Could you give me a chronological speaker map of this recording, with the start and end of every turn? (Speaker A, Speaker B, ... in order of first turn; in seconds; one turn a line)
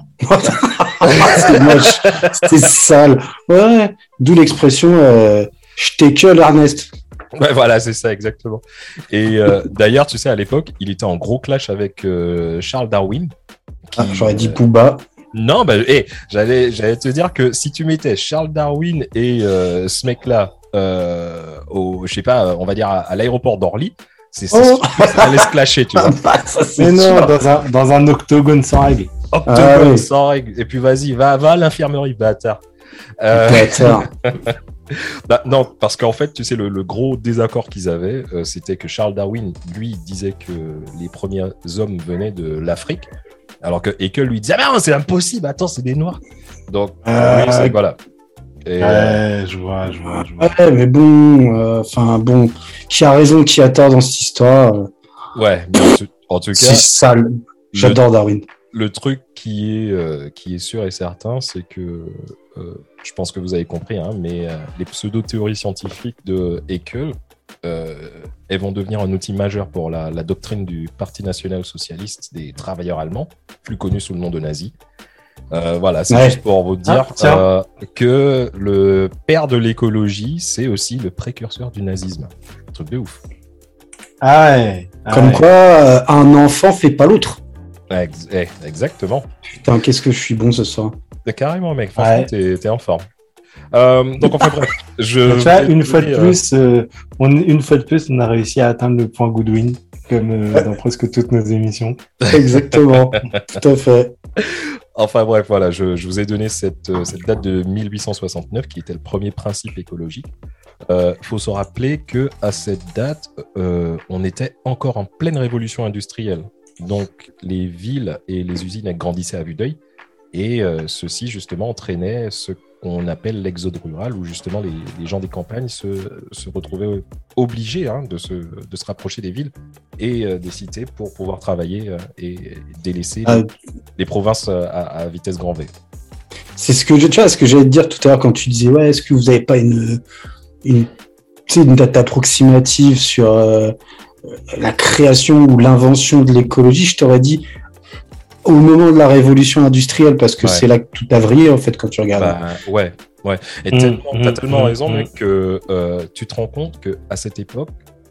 Speaker A: 0.2-6.9
Speaker B: 1.0-2.5
Speaker B: 7.4-13.3
Speaker B: 13.9-14.6
Speaker A: 14.0-15.0
Speaker B: 15.3-26.2
Speaker A: 24.5-27.4
Speaker C: 26.8-29.1
Speaker B: 29.3-32.6
Speaker A: 29.5-30.1
Speaker B: 33.2-43.1
Speaker A: 33.3-34.1
Speaker B: 43.6-48.0
Speaker A: 47.1-47.8
Speaker B: 48.7-49.2
Speaker C: 48.8-50.6
Speaker A: 50.3-54.9
Speaker B: 55.4-56.9
Speaker A: 56.5-58.5
Speaker B: 57.7-58.0
Speaker B: 58.7-74.7
Speaker B: 75.5-83.2
Speaker A: 76.1-76.4
Speaker C: 76.9-77.4
Speaker C: 84.2-85.5
Speaker A: 85.1-87.4
Speaker B: 87.9-89.3
Speaker A: 89.6-91.0
Speaker B: 91.3-93.1
Speaker C: 92.0-92.3
Speaker B: 93.7-96.4
Speaker C: 95.3-102.0
Speaker B: 102.2-103.2
Speaker A: 102.3-104.2
Speaker B: 104.4-110.3
Speaker B: 110.9-119.8
Speaker B: 120.3-133.5
Speaker B: 134.0-135.7
Speaker A: 136.6-140.0
Speaker A: 140.6-140.9
Speaker A: 141.5-143.8
Speaker A: 144.5-147.4
Speaker A: 148.4-152.4
Speaker B: 152.2-157.7
Speaker C: 153.7-155.1